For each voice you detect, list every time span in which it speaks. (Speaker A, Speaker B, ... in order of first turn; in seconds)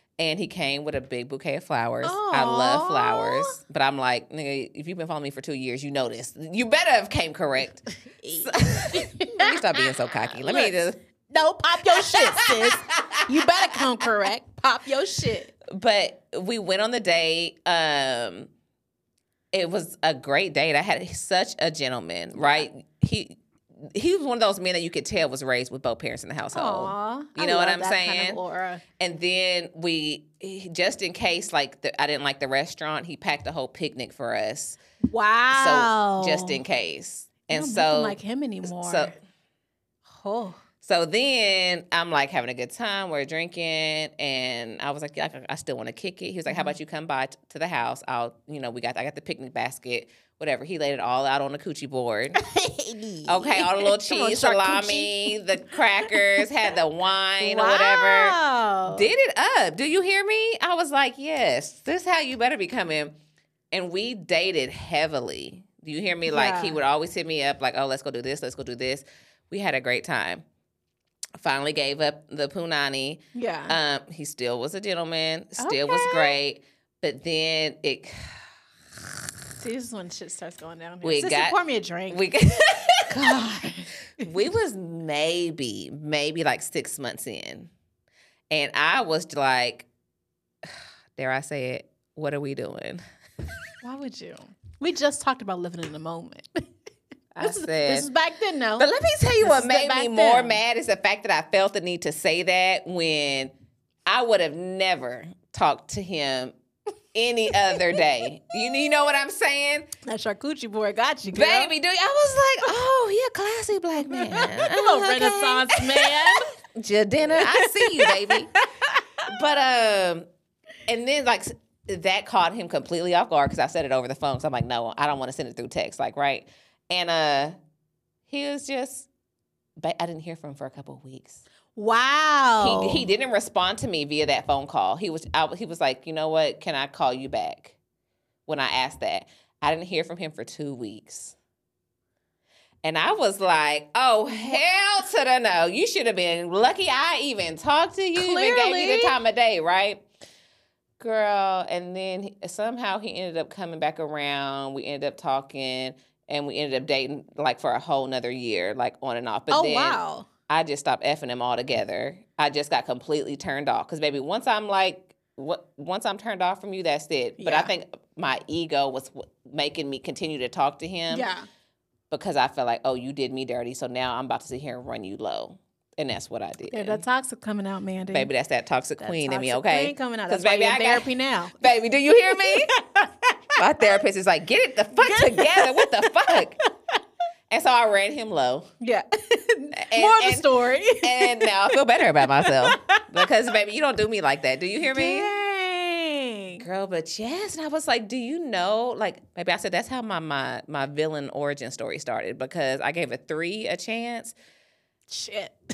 Speaker A: 0.2-7.8, 8.4-11.0, 11.9-13.2, 15.7-18.5, 19.5-28.4, 29.0-34.8, 35.5-39.1, 40.8-52.4, 53.3-58.4, 58.9-63.2, 63.7-70.4, 71.4-78.4, 81.0-81.6, 82.1-83.5, 84.2-87.7, 88.5-89.9, 90.6-93.0, 97.4-98.1, 98.8-103.5, 104.1-106.5, 107.1-109.9, 111.3-118.5, 119.2-120.3, 120.9-127.6, 128.3-129.1, 129.8-131.4, 132.6-137.8, 138.5-141.4, 142.8-150.1, 151.0-171.3, 172.1-177.0, 178.1-182.7, 183.6-186.6, 187.5-188.7, 189.7-195.3, 196.6-204.4
Speaker B: 2.0-3.6, 8.1-15.5, 22.4-22.6, 26.5-28.8, 35.1-36.6, 37.5-39.1, 40.1-40.6, 52.4-56.2, 57.4-59.1, 66.3-66.8, 73.3-73.8, 75.6-76.3, 79.6-82.2, 83.1-84.3, 93.8-96.6, 97.4-100.6, 110.0-111.7, 114.0-116.5, 117.4-119.0, 131.8-133.1, 144.3-144.6, 148.2-149.2, 159.5-160.3, 167.4-167.7, 171.1-171.5, 176.7-178.3, 179.0-181.6, 182.3-183.6, 184.9-186.6, 188.8-193.3, 194.8-196.7, 205.1-205.6